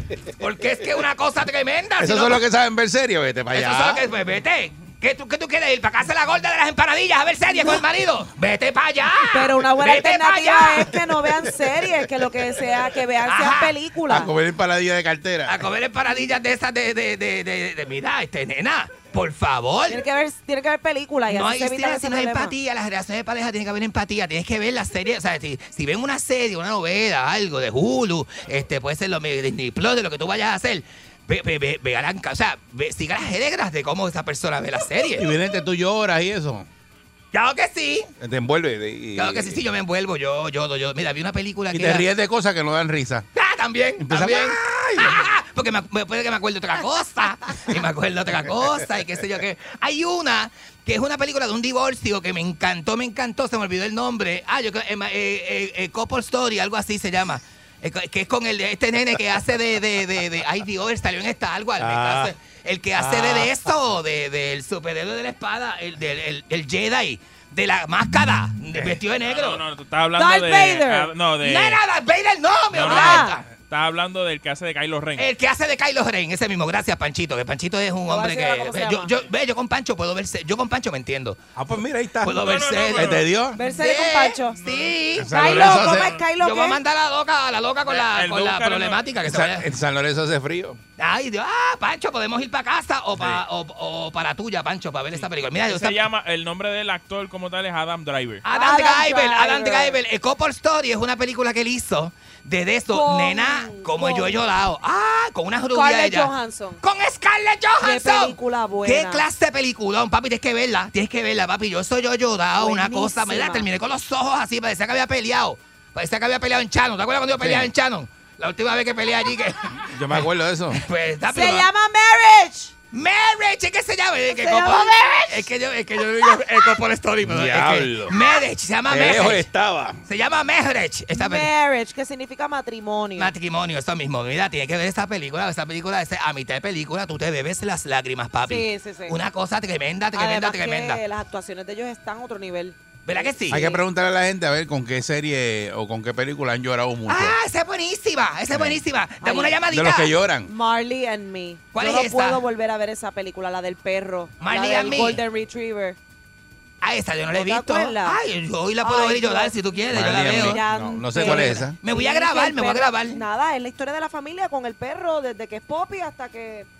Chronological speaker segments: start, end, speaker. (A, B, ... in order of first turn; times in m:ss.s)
0:00.4-0:02.4 A
0:02.0-0:04.0 B
0:03.5-0:10.9 A
0:09.3-0:14.3 C
0:13.2-0:13.7 A
0:14.1-0:15.6 B
0:15.4-0:20.0 A
0:19.9-0:22.5 C
0:21.3-0:35.3 A
0:35.1-0:36.7 B
0:37.3-0:38.1 A
0:38.2-0:39.6 B
0:39.1-0:42.0 A
0:41.7-0:43.3 B
0:43.3-1:09.6 A
0:44.0-0:45.3 B
1:01.8-1:02.3 B
1:03.0-1:03.6 B
1:09.2-1:11.8 D
1:10.2-1:11.1 C
1:11.4-1:13.4 A
1:12.7-1:15.3 D
1:12.8-1:13.4 C
1:15.2-1:21.4 A
1:18.1-1:19.1 C
1:21.5-1:23.6 B
1:22.2-1:23.1 A
1:22.4-1:23.3 D
1:23.5-1:24.6 C
1:23.8-1:29.6 A
1:24.5-1:25.0 D
1:25.2-1:26.1 B
1:25.3-1:26.8 C
1:27.8-1:29.1 D
1:29.2-1:30.8 B
1:31.0-1:36.0 A
1:33.1-1:33.4 B
1:35.6-1:38.4 D
1:38.4-1:46.3 A
1:38.5-1:40.0 C
1:42.9-1:44.4 C
1:45.7-1:46.8 C
1:46.8-2:01.6 A
1:47.8-1:49.2 C
1:52.6-1:53.6 C
1:57.4-1:57.7 B
1:59.9-2:00.8 B
2:01.3-2:02.7 C
2:02.9-2:09.4 A
2:04.3-2:05.5 C
2:07.2-2:08.2 B
2:08.9-2:10.0 B
2:10.0-2:11.5 A
2:11.1-2:13.3 C
2:13.2-2:21.0 A
2:18.5-2:19.2 C
2:20.1-2:23.2 C
2:23.0-2:23.7 A
2:23.5-2:27.4 B
2:27.1-2:30.1 A
2:28.5-2:28.8 B
2:29.2-2:29.6 C
2:29.6-2:30.5 B
2:30.5-2:36.0 C
2:31.7-2:32.4 A
2:34.4-2:35.2 A
2:36.8-2:40.6 A
2:37.3-2:38.2 C
2:38.8-2:46.7 C
2:39.9-2:41.8 B
2:41.2-2:43.2 A